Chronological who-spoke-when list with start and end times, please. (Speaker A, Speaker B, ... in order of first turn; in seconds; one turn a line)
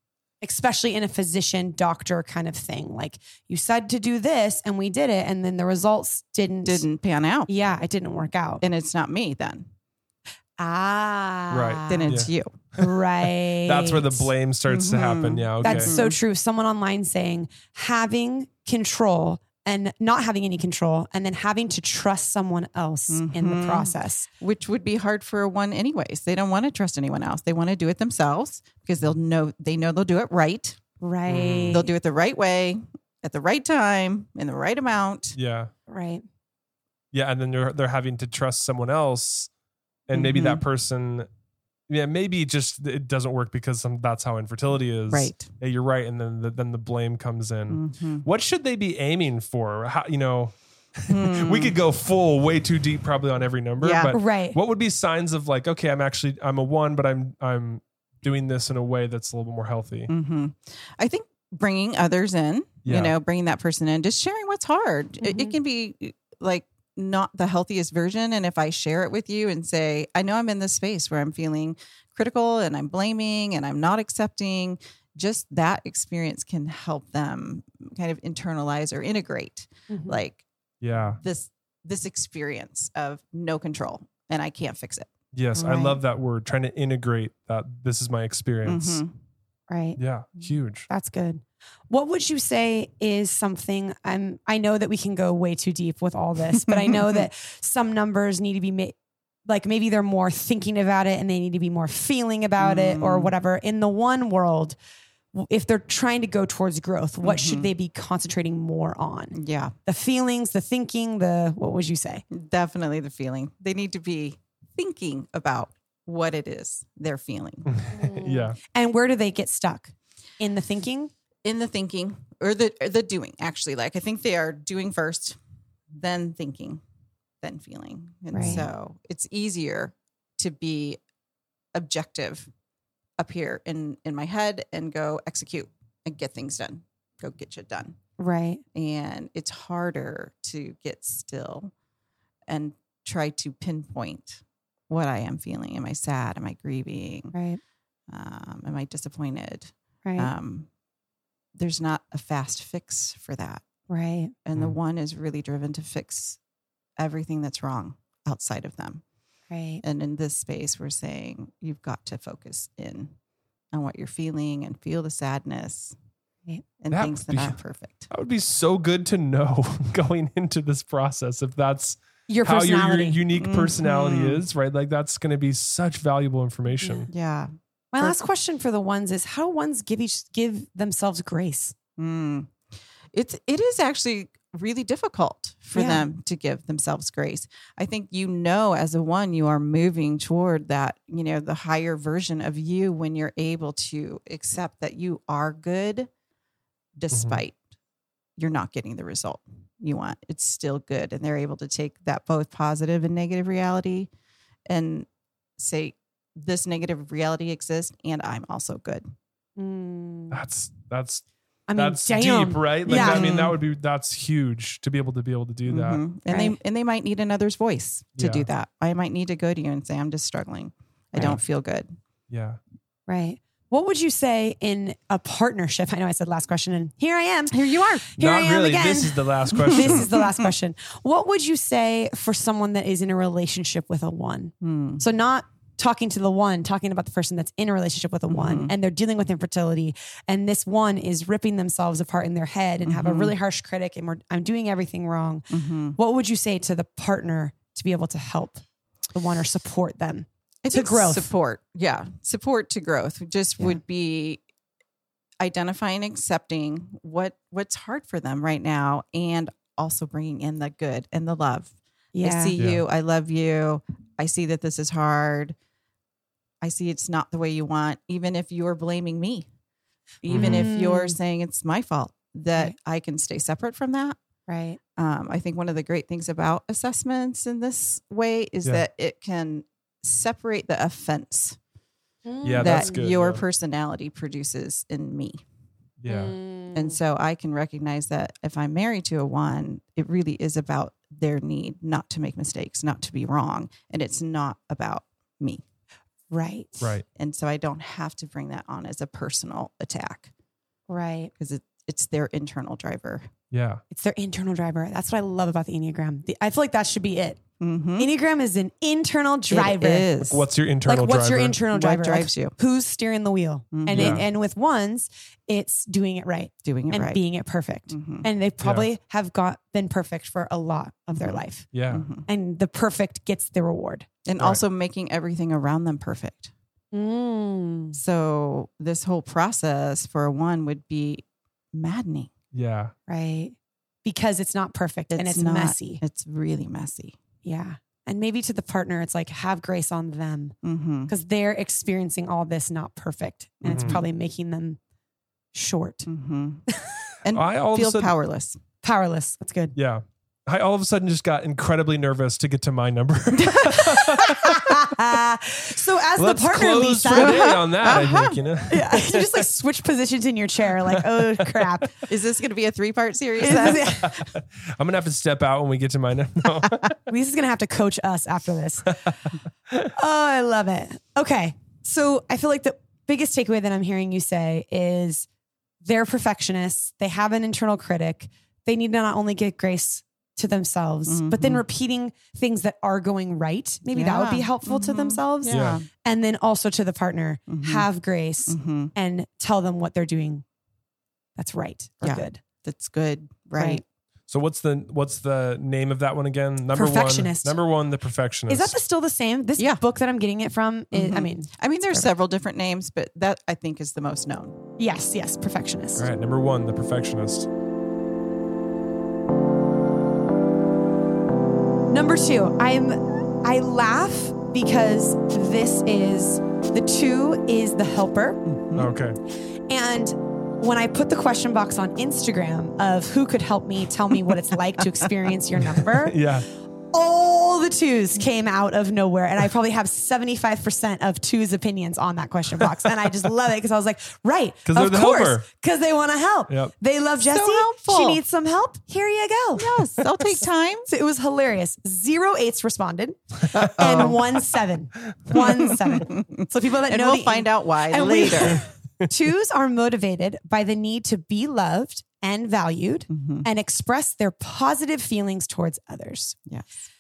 Speaker A: 0.4-6.8
Speaker B: 6.7-7.5
Speaker A: 7.5-8.6
Speaker B: 8.6-9.7
Speaker A: 10.6-12.3
Speaker C: 11.5-12.3
Speaker B: 11.9-12.6
Speaker A: 12.8-14.3
Speaker C: 13.6-15.9
Speaker B: 14.7-16.1
Speaker A: 15.6-24.3
Speaker B: 23.1-30.8
Speaker A: 31.0-31.9
Speaker C: 31.3-31.8
Speaker B: 31.7-35.4
Speaker C: 35.4-35.7
Speaker A: 35.9-36.2
Speaker C: 37.1-39.5
Speaker C: 40.1-41.3
Speaker B: 40.1-40.6
Speaker C: 41.9-60.1
Speaker B: 45.1-45.5
Speaker B: 47.7-48.2
Speaker B: 51.1-51.8
Speaker B: 53.8-54.2
Speaker A: 54.1-54.6
Speaker B: 60.1-80.4
Speaker C: 62.9-63.1
Speaker A: 65.2-65.5
Speaker A: 79.9-80.2
Speaker C: 80.8-81.2
Speaker B: 81.2-85.1
Speaker C: 85.3-89.0
Speaker A: 85.6-86.0
Speaker B: 88.7-89.1
Speaker A: 89.7-90.0
Speaker C: 90.0-90.9
Speaker A: 90.9-99.0
Speaker B: 96.5-97.2
Speaker A: 99.5-104.8
Speaker B: 102.6-103.3
Speaker A: 105.3-112.2
Speaker B: 107.2-107.7
Speaker B: 109.3-109.7
Speaker B: 112.3-117.7
Speaker C: 117.7-118.6
Speaker A: 117.9-121.1
Speaker B: 121.4-125.4
Speaker B: 126.0-126.8
Speaker B: 127.4-131.0
Speaker A: 128.3-128.6
Speaker C: 128.4-128.7
Speaker B: 131.8-132.5
Speaker B: 133.2-138.0
Speaker A: 138.2-138.6
Speaker B: 138.8-141.7
Speaker B: 142.5-147.3
Speaker A: 147.3-147.6
Speaker B: 148.1-150.7
Speaker A: 150.1-150.3
Speaker B: 151.6-153.6
Speaker A: 153.9-154.3
Speaker B: 154.4-156.4
Speaker B: 157.0-159.0
Speaker A: 159.5-159.8
Speaker B: 159.8-163.1
Speaker B: 163.7-165.9
Speaker B: 166.8-168.1
Speaker C: 166.9-167.6
Speaker C: 168.1-177.1
Speaker A: 172.3-173.2
Speaker B: 173.3-174.4
Speaker A: 176.8-177.1
Speaker B: 177.1-178.2
Speaker A: 177.9-181.8
Speaker B: 182.0-182.5
Speaker B: 183.1-196.1
Speaker A: 185.8-186.1
Speaker B: 197.0-197.6
Speaker C: 197.1-197.4
Speaker B: 198.4-204.1
Speaker B: 204.7-205.1
Speaker B: 205.6-209.0
Speaker A: 209.6-210.4
Speaker C: 210.3-211.2
Speaker A: 211.7-213.4
Speaker C: 211.8-216.0
Speaker B: 212.9-213.6
Speaker B: 215.7-221.9
Speaker A: 216.3-216.6
Speaker C: 218.2-218.5
Speaker C: 222.3-222.6
Speaker A: 223.1-248.6
Speaker B: 227.5-228.1
Speaker C: 228.2-230.1
Speaker B: 229.6-230.5
Speaker B: 234.6-235.0
Speaker B: 238.3-238.7
Speaker B: 242.8-243.3
Speaker B: 245.5-246.0
Speaker A: 249.1-251.3
Speaker B: 250.6-254.4
Speaker B: 255.4-265.6
Speaker A: 262.1-262.6
Speaker B: 266.6-269.5
Speaker B: 270.2-274.2
Speaker C: 270.3-270.7
Speaker A: 270.3-271.2
Speaker A: 274.5-274.8
Speaker B: 275.0-281.6
Speaker A: 282.3-283.0
Speaker C: 282.4-283.4
Speaker B: 282.6-285.4
Speaker C: 286.0-286.3
Speaker A: 286.1-287.0
Speaker B: 286.7-295.6
Speaker A: 296.3-296.9
Speaker C: 296.8-297.1
Speaker B: 297.2-300.3
Speaker A: 300.9-301.3
Speaker B: 301.4-303.3
Speaker C: 303.5-303.8
Speaker A: 303.9-307.4
Speaker B: 307.6-308.1
Speaker A: 308.0-310.2
Speaker B: 309.5-310.5
Speaker C: 310.3-311.6
Speaker A: 310.9-321.7
Speaker B: 311.7-312.6
Speaker B: 313.7-314.2
Speaker C: 313.9-314.3
Speaker B: 316.6-317.2
Speaker B: 317.9-318.3
Speaker C: 318.6-318.9
Speaker B: 321.2-322.3
Speaker C: 321.7-322.1
Speaker A: 322.3-324.1
Speaker B: 324.2-326.5
Speaker A: 326.9-328.0
Speaker B: 327.9-332.3
Speaker C: 332.5-332.9
Speaker A: 333.1-336.0
Speaker B: 335.1-337.2
Speaker A: 337.4-340.6
Speaker B: 340.6-341.1
Speaker A: 341.1-344.8
Speaker B: 343.6-344.0
Speaker C: 343.7-344.0
Speaker A: 345.5-346.1
Speaker B: 346.1-346.7
Speaker A: 346.7-347.0
Speaker B: 347.2-348.6
Speaker C: 347.3-348.1
Speaker A: 348.8-349.8
Speaker C: 349.8-355.2
Speaker A: 353.5-357.6
Speaker C: 356.1-359.4
Speaker B: 357.1-358.4
Speaker A: 358.7-362.0
Speaker C: 360.9-361.8
Speaker B: 362.1-364.1
Speaker A: 363.4-364.3
Speaker C: 363.6-366.9
Speaker A: 367.1-369.0
Speaker C: 368.9-369.9
Speaker A: 369.9-375.3
Speaker A: 375.8-390.4
Speaker B: 381.1-381.6
Speaker B: 383.9-385.9
Speaker C: 385.5-385.8
Speaker B: 387.5-387.9
Speaker B: 388.5-388.9
Speaker A: 391.4-392.4
Speaker B: 392.0-393.8
Speaker A: 393.6-393.8
Speaker C: 394.3-398.8
Speaker A: 396.7-397.6
Speaker A: 398.5-402.1
Speaker B: 400.9-404.6
Speaker A: 404.8-406.1
Speaker C: 406.0-407.5
Speaker A: 411.9-418.4
Speaker B: 418.5-418.9
Speaker C: 418.8-419.2
Speaker A: 419.7-426.2
Speaker C: 425.6-426.5
Speaker A: 426.9-439.8
Speaker C: 432.6-432.9
Speaker C: 434.7-435.5
Speaker B: 437.2-438.2
Speaker B: 439.6-440.9
Speaker A: 440.9-456.4
Speaker B: 443.6-444.2
Speaker B: 445.3-448.6
Speaker B: 453.1-453.5